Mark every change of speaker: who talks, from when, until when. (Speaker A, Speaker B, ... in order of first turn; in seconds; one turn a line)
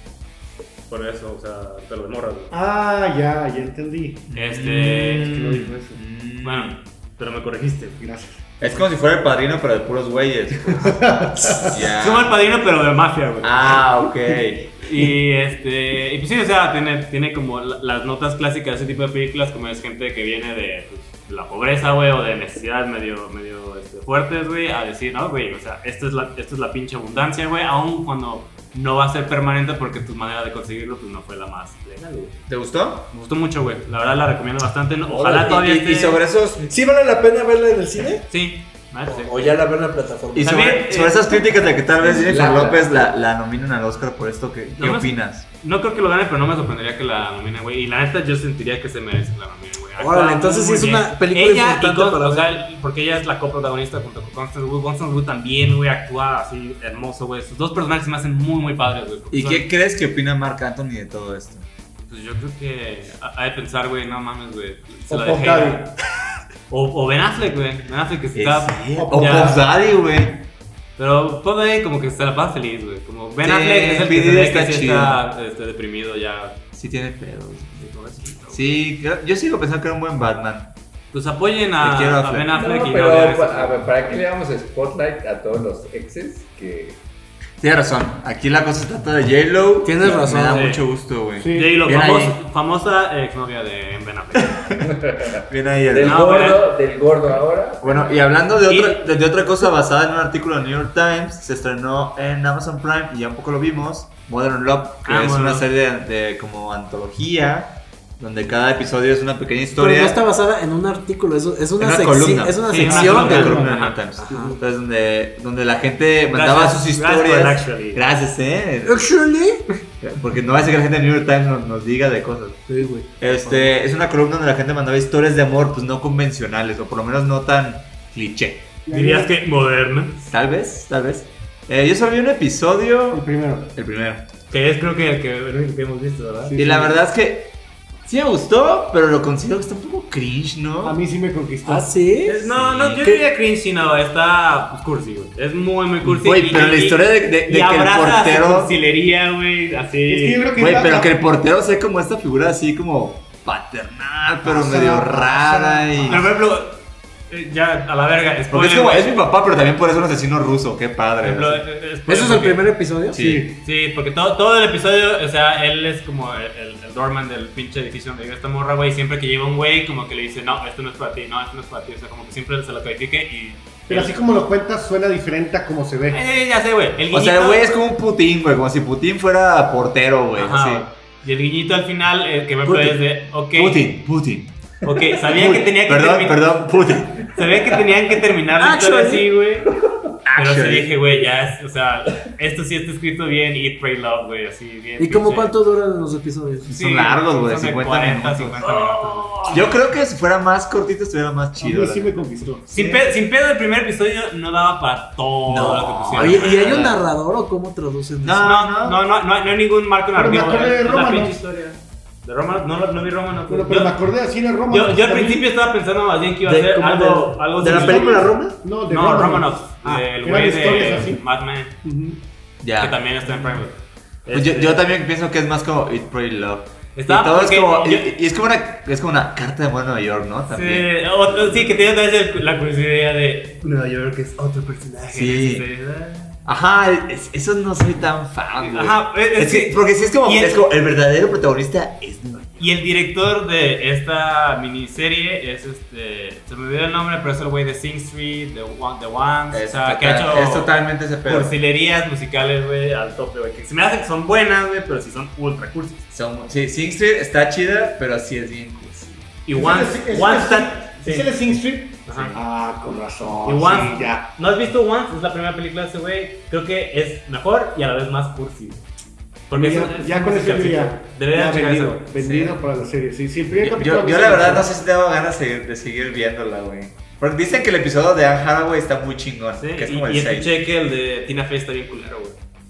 Speaker A: 0.9-2.5
Speaker B: 2.5-4.3
Speaker C: 4.3-6.8
Speaker A: 4.3-5.3
Speaker B: 5.2-6.0
Speaker A: 6.4-8.0
Speaker B: 8.0-8.4
Speaker C: 8.6-12.3
Speaker B: 10.7-11.8
Speaker A: 11.8-13.8
Speaker C: 13.4-14.7
Speaker A: 14.8-32.4
Speaker C: 32.5-33.1
Speaker A: 33.1-36.2
Speaker C: 35.1-36.7
Speaker D: 36.7-38.3
Speaker A: 38.3-39.5
Speaker D: 39.0-40.6
Speaker C: 40.3-45.4
Speaker A: 40.4-41.7
Speaker D: 42.0-42.8
Speaker E: 42.2-42.8
Speaker A: 44.8-59.6
Speaker D: 50.0-52.5
Speaker C: 59.3-61.6
Speaker A: 62.0-65.9
Speaker B: 65.1-65.9
Speaker A: 66.7-69.5
Speaker C: 68.3-70.5
Speaker B: 69.0-69.6
Speaker A: 71.0-76.6
Speaker C: 73.4-75.2
Speaker C: 76.7-77.9
Speaker A: 77.8-78.7
Speaker C: 78.5-80.7
Speaker A: 81.1-83.9
Speaker C: 81.8-82.5
Speaker E: 82.5-87.0
Speaker C: 87.6-92.4
Speaker D: 89.8-90.7
Speaker A: 90.5-90.8
Speaker B: 91.4-91.8
Speaker A: 91.5-94.7
Speaker C: 94.3-94.8
Speaker E: 94.8-98.0
Speaker C: 95.5-96.4
Speaker A: 96.0-96.7
Speaker C: 97.8-110.2
Speaker A: 98.6-99.1
Speaker A: 105.0-105.6
Speaker D: 109.8-114.6
Speaker C: 111.8-119.1
Speaker A: 112.7-114.0
Speaker A: 116.3-118.0
Speaker D: 118.8-119.7
Speaker C: 120.0-122.6
Speaker D: 122.7-123.7
Speaker C: 123.2-128.7
Speaker B: 128.8-129.3
Speaker A: 128.9-130.2
Speaker C: 130.2-134.3
Speaker B: 133.1-133.7
Speaker A: 134.5-136.6
Speaker B: 136.5-136.9
Speaker C: 136.6-137.5
Speaker C: 138.1-141.0
Speaker B: 140.8-141.9
Speaker D: 141.6-142.4
Speaker A: 142.2-150.6
Speaker C: 142.5-143.1
Speaker C: 146.0-148.8
Speaker B: 150.1-151.1
Speaker C: 150.6-156.3
Speaker B: 154.4-156.3
Speaker A: 156.1-159.1
Speaker C: 158.5-161.6
Speaker A: 161.2-162.7
Speaker D: 162.1-163.2
Speaker C: 163.1-163.5
Speaker B: 163.2-163.6
Speaker A: 163.6-174.2
Speaker B: 173.9-176.2
Speaker A: 176.1-177.8
Speaker C: 177.1-180.9
Speaker A: 180.4-183.9
Speaker D: 182.7-183.0
Speaker C: 183.5-184.5
Speaker A: 184.8-189.7
Speaker C: 185.2-187.5
Speaker D: 188.6-189.3
Speaker C: 190.2-190.9
Speaker A: 190.3-195.5
Speaker D: 195.0-196.7
Speaker C: 196.7-198.7
Speaker A: 196.7-199.7
Speaker C: 199.5-203.0
Speaker B: 201.6-202.6
Speaker A: 202.7-206.9
Speaker C: 205.5-206.9
Speaker D: 206.1-208.4
Speaker C: 208.2-209.0
Speaker A: 208.4-213.9
Speaker B: 210.1-211.4
Speaker B: 213.5-215.5
Speaker A: 214.7-218.3
Speaker D: 216.4-218.6
Speaker B: 217.6-221.2
Speaker A: 218.9-221.8
Speaker B: 221.8-222.2
Speaker C: 222.6-223.0
Speaker A: 222.8-224.9
Speaker C: 224.3-231.8
Speaker A: 226.9-228.1
Speaker A: 230.5-236.4
Speaker C: 235.1-235.7
Speaker C: 236.4-242.8
Speaker A: 238.6-240.6
Speaker A: 242.6-256.1
Speaker C: 249.5-251.5
Speaker C: 256.1-259.2
Speaker A: 259.4-261.3
Speaker B: 259.5-264.2
Speaker A: 262.1-262.4
Speaker A: 263.4-268.8
Speaker A: 269.5-272.1
Speaker B: 269.5-274.7
Speaker C: 272.2-272.6
Speaker C: 273.6-280.5
Speaker A: 279.6-282.4